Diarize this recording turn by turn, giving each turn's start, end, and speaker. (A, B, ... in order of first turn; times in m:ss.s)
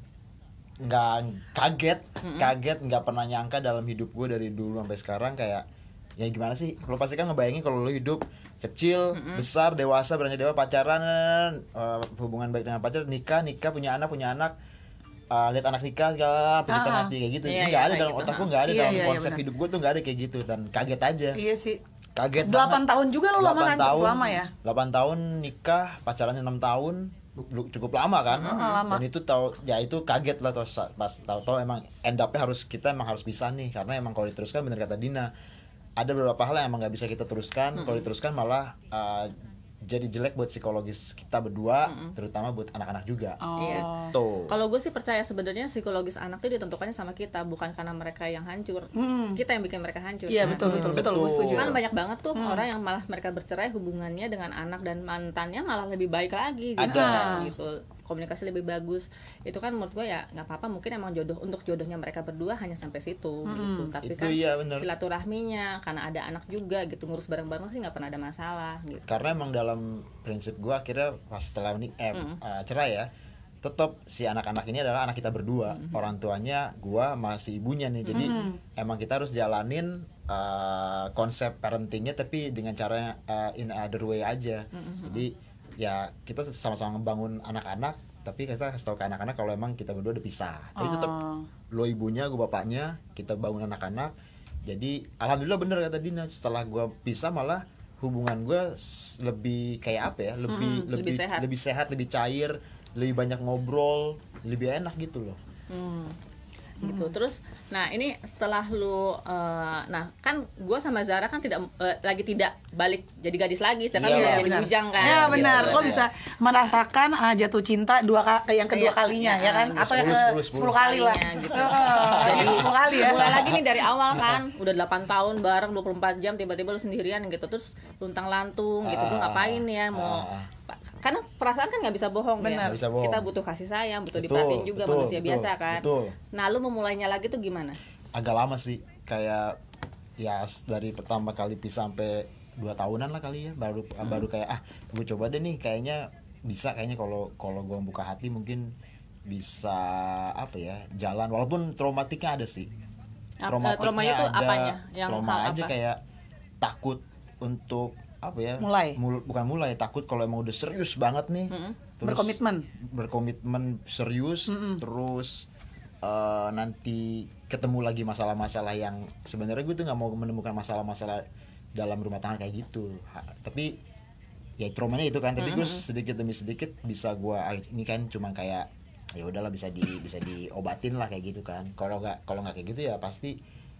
0:00.8-0:05.6 A
0:02.2-0:02.5 B
0:06.2-0:14.6 A
0:09.1-0:09.5 B
0:15.3-0:21.4 A
0:16.7-0:17.1 C
0:17.4-0:18.5 B
0:18.6-0:19.4 C
0:21.4-0:21.8 C
0:22.2-0:22.8 A
0:22.4-0:24.5 C
0:23.4-0:35.3 A
0:28.3-0:28.8 B
0:28.4-0:29.0 C
0:36.0-0:44.5 A
0:37.8-0:38.1 B
0:41.9-0:42.2 B
0:43.4-0:44.2 C
0:43.6-0:43.9 B
0:44.5-1:09.3 B
0:49.0-0:49.4 C
0:50.3-0:51.8 C
0:50.4-0:51.8 A
0:52.4-0:52.6 C
0:56.8-0:57.5 A
0:56.9-0:57.5 C
1:03.5-1:03.9 C
1:04.0-1:04.9 A
1:09.1-1:13.1 A
1:13.6-1:31.2 A
1:15.7-1:16.0 B
1:18.1-1:18.5 B
1:18.1-1:18.6 C
1:24.7-1:25.2 B
1:30.8-1:31.5 C
1:31.7-1:34.1 A
1:34.7-1:45.4 A
1:40.5-1:40.9 C
1:40.9-1:41.5 B
1:45.7-1:46.2 B
1:46.8-1:55.9 B
1:46.8-1:47.1 C
1:54.0-1:56.1 A
1:54.1-2:03.5 C
1:58.7-2:17.8 B
1:59.8-2:00.9 A
2:01.8-2:03.6 A
2:04.1-2:04.4 A
2:08.8-2:10.5 A
2:12.4-2:12.8 C
2:12.6-2:13.3 A
2:14.1-2:16.2 A
2:18.1-2:19.6 A
2:20.2-2:28.7 A
2:29.3-2:32.7 A
2:33.4-2:35.7 B
2:33.5-2:36.0 A
2:36.6-2:45.5 A
2:38.6-2:39.0 C
2:41.5-2:41.8 B
2:42.0-2:42.7 C
2:44.5-2:44.8 C
2:46.0-2:51.2 A
2:51.8-2:53.7 A
2:54.6-3:03.4 A
2:55.4-2:55.8 B